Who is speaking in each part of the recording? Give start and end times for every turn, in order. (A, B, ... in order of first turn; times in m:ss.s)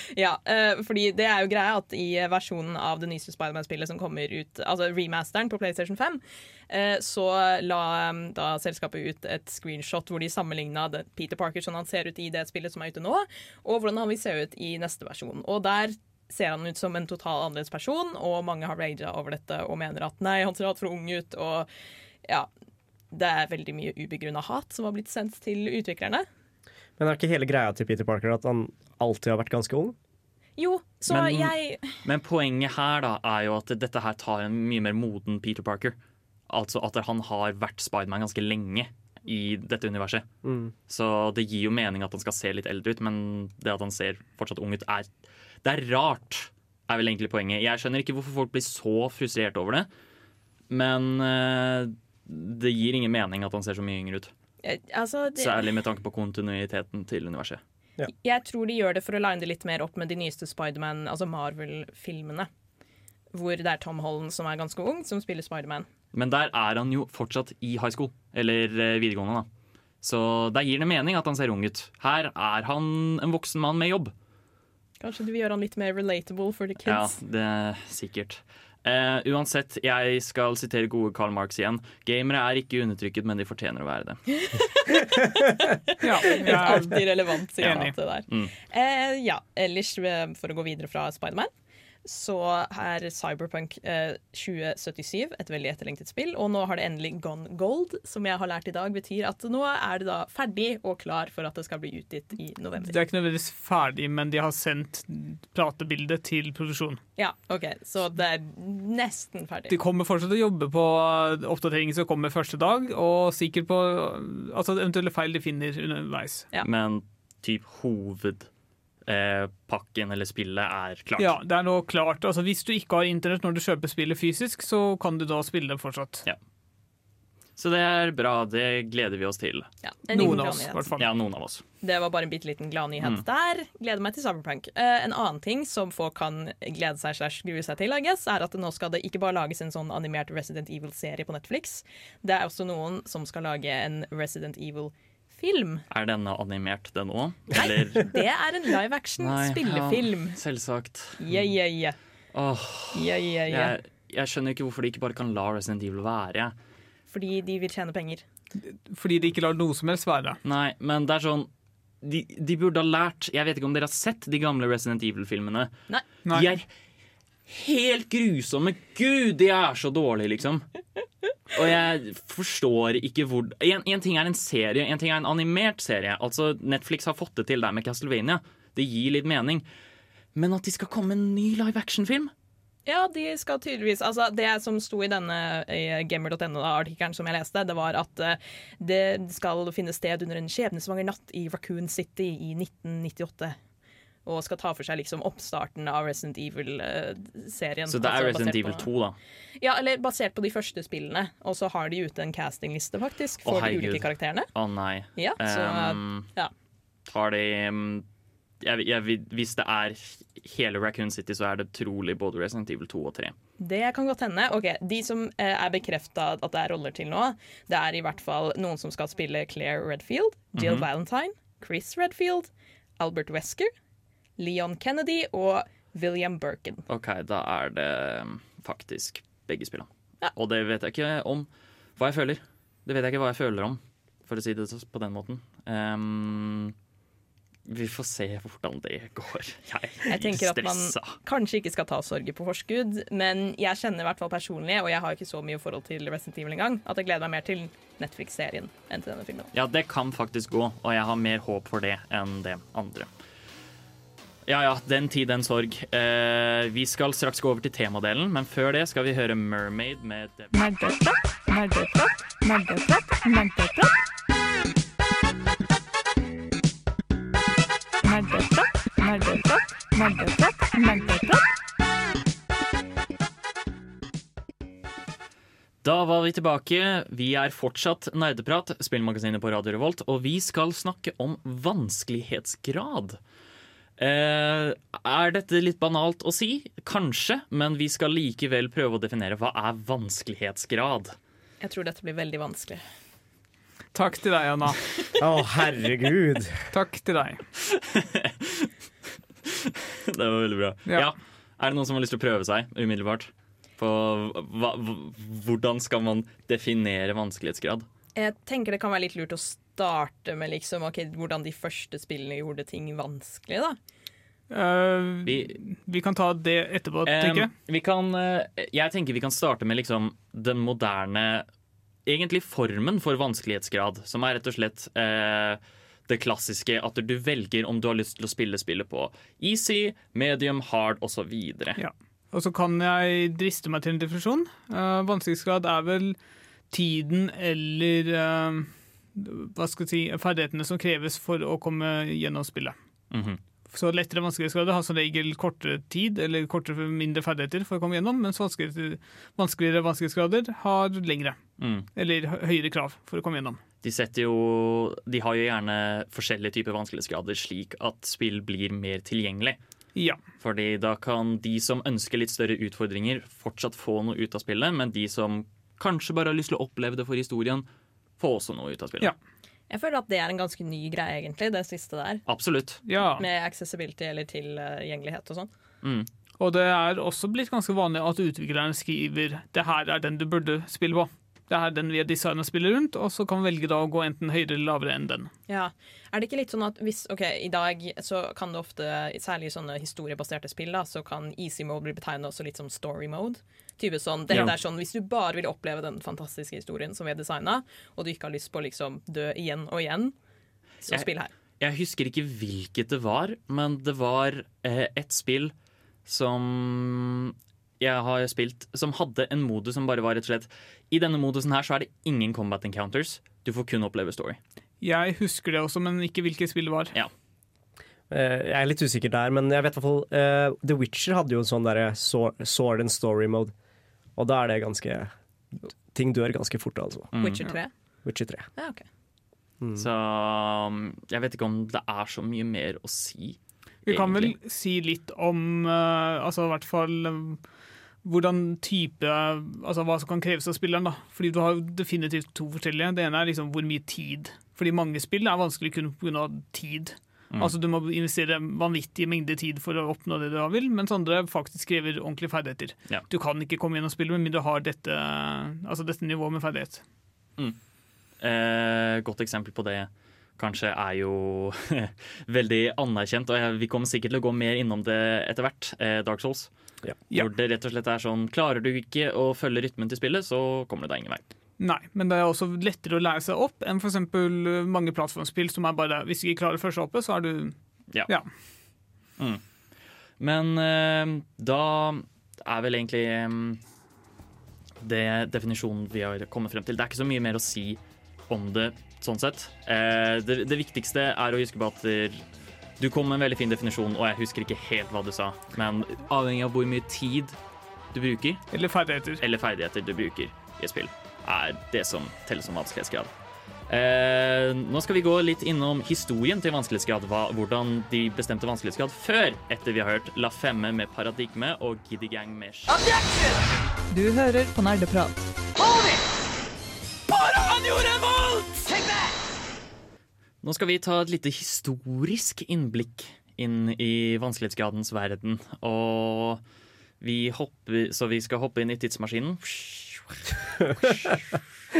0:00.1-0:21.7 A
0:23.1-0:26.2 A
0:27.0-0:30.0 B
0:30.6-0:31.9 A
0:31.1-0:36.0 C
0:36.5-0:40.2 C
0:40.4-0:40.7 B
0:40.9-0:45.1 C
0:45.6-0:49.9 C
0:50.7-0:54.3 C
0:54.6-0:55.6 A
0:55.4-0:57.6 C
0:58.0-1:02.5 A
1:03.3-1:05.8 A
1:06.1-1:09.5 C
1:10.0-1:14.1 C
1:15.0-1:17.1 A
1:16.8-1:24.2 C
1:24.3-1:31.5 A
1:26.0-1:27.9 D
1:28.3-1:28.5 C
1:32.0-1:43.0 A
1:42.8-1:47.0 D
1:47.2-1:49.7 A
1:49.7-1:56.5 D
1:56.6-1:58.5 C
1:59.0-2:01.3 C
2:01.2-2:06.2 D
2:07.6-2:11.6 C
2:09.8-2:10.9 A
2:10.1-2:11.1 D
2:11.8-2:25.8 A
2:25.9-2:28.1 C
2:27.5-2:30.4 A
2:29.2-2:31.5 C
2:31.2-2:32.0 A
2:32.3-2:36.5 C
2:32.9-2:33.8 A
2:37.1-2:38.2 A
2:38.6-2:40.4 D
2:40.4-2:41.5 C
2:42.0-2:45.7 C
2:46.3-2:46.7 C
2:47.5-2:50.7 C
2:51.5-2:59.6 C
3:00.3-3:02.3 C
3:02.8-3:13.6 A
3:14.2-3:18.9 A
3:17.9-3:19.2 C
3:19.6-3:24.5 A
3:23.4-3:26.3 C
3:25.2-3:26.5 A
3:27.1-3:28.0 C
3:28.6-3:33.3 C
3:33.6-3:43.7 A
3:40.6-3:40.9 C
3:44.4-3:46.8 A
3:46.9-3:56.7 C
3:57.7-4:01.2 C
4:00.1-4:09.5 A
4:09.5-4:13.1 C
4:14.4-4:20.5 C
4:20.5-4:23.9 E
4:28.0-4:31.4 E
4:35.8-4:43.2 C
4:44.0-4:51.2 C
4:51.6-4:52.8 A
4:53.9-4:54.8 D
4:55.2-4:56.7 B
4:56.7-4:57.4 D
4:57.6-4:58.7 C
4:59.4-5:07.8 C
5:08.2-5:13.8 A
5:14.5-5:17.5 D
5:15.2-5:15.6 C
5:17.0-5:21.4 C
5:22.0-5:31.8 C
5:31.8-5:36.2 D
5:36.7-5:42.7 D
5:43.1-5:43.4 C
5:43.7-5:51.4 D
5:51.6-5:51.9 C
5:51.9-5:53.6 D
5:53.8-5:59.6 C
6:00.4-6:07.7 C
6:08.2-6:09.1 C
6:09.7-6:12.2 A
6:12.3-6:12.8 C
6:12.9-6:13.2 D
6:13.2-6:15.5 A
6:15.8-6:16.1 C
6:16.4-6:25.3 D
6:25.5-6:40.1 A
6:40.8-6:41.3 A
6:41.6-6:45.5 C
6:46.0-6:54.4 C
6:54.8-6:56.9 D
6:58.1-7:03.5 B
7:04.2-7:05.1 B
7:05.6-7:07.1 B
7:07.1-7:07.5 C
7:07.1-7:07.7 A
7:08.0-7:08.5 B
7:08.6-7:08.8 A
7:09.8-7:14.3 C
7:13.9-7:17.4 D
7:18.0-7:36.8 D
7:38.2-7:46.5 C
7:47.1-7:51.2 C
7:51.6-7:57.6 D
8:00.2-8:03.6 C
8:04.8-8:12.2 C
8:12.8-8:17.4 C
8:17.9-8:18.5 C
8:18.5-8:19.2 D
8:19.2-8:23.1 C
8:23.7-8:32.8 C
8:32.9-8:33.3 E
8:33.9-8:36.0 E
8:37.1-8:39.0 E
8:40.4-8:46.4 C
8:47.0-8:51.4 C